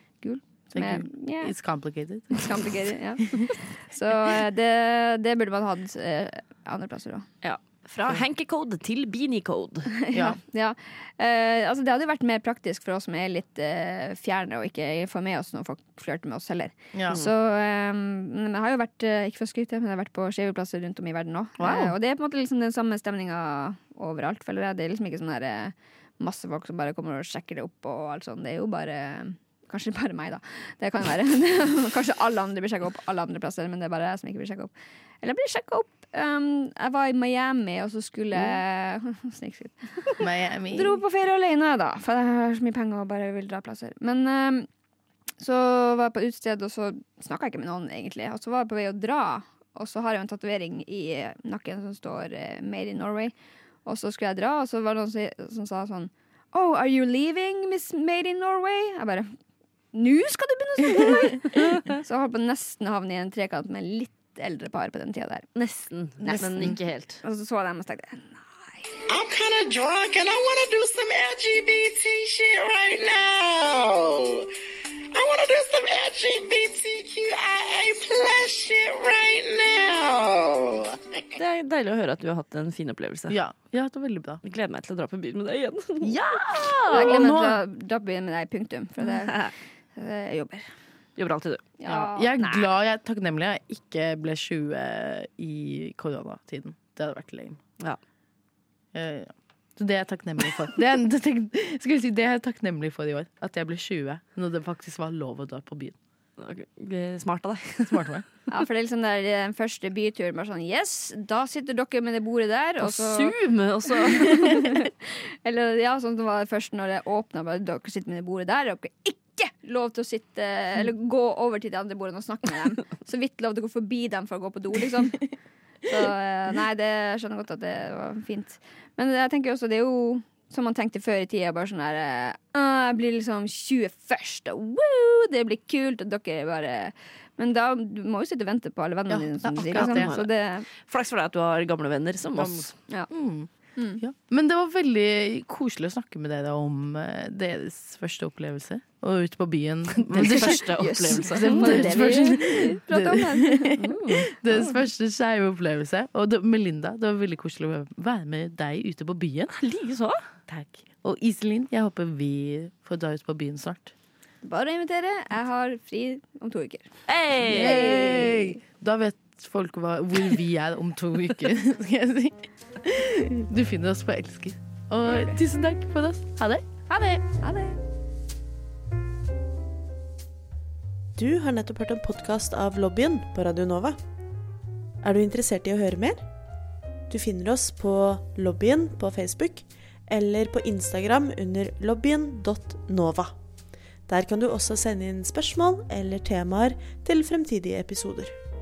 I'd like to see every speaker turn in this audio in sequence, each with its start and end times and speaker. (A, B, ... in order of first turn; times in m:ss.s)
0:00.2-0:01.5 A
0:00.7-0:02.6 B
0:02.3-0:07.3 A
0:07.4-0:09.9 C
0:10.1-0:34.7 A
0:10.1-0:10.4 B
0:16.9-0:17.2 B
0:21.6-0:21.9 B
0:35.2-0:40.2 A
0:38.3-0:38.6 B
0:40.2-0:41.0 B
0:40.7-0:44.7 A
0:45.4-0:59.3 A
0:59.9-1:05.5 A
1:05.5-1:07.2 C
1:06.2-1:08.8 A
1:06.3-1:06.8 B
1:09.1-1:14.5 D
1:15.1-1:21.3 D
1:21.4-1:23.4 C
1:23.3-1:24.4 B
1:24.4-1:26.8 C
1:26.0-1:27.6 B
1:26.9-1:29.4 A
1:29.2-1:29.5 C
1:30.0-1:30.6 A
1:31.2-1:31.6 C
1:31.8-1:32.7 A
1:31.8-1:37.6 B
1:38.9-1:46.0 B
1:46.4-1:48.2 C
1:47.9-1:48.2 B
1:48.5-1:53.3 A
1:52.8-1:54.7 C
1:54.0-1:54.9 A
1:55.4-2:05.3 A
2:05.8-2:20.6 A
2:19.1-2:20.2 B
2:19.7-2:20.3 C
2:20.8-2:22.7 C
2:22.4-2:39.5 B
2:23.8-2:24.0 A
2:30.0-2:32.4 C
2:30.5-2:33.8 A
2:33.8-2:34.3 C
2:39.5-2:40.2 C
2:40.5-2:43.9 B
2:44.4-2:46.9 A
2:47.1-2:48.1 C
2:47.5-2:48.6 A
2:47.5-2:56.9 B
2:55.1-2:55.4 A
2:57.2-2:57.8 A
3:01.2-3:04.0 E
3:05.0-3:06.2 E
3:07.1-3:13.3 E
3:14.1-3:18.3 E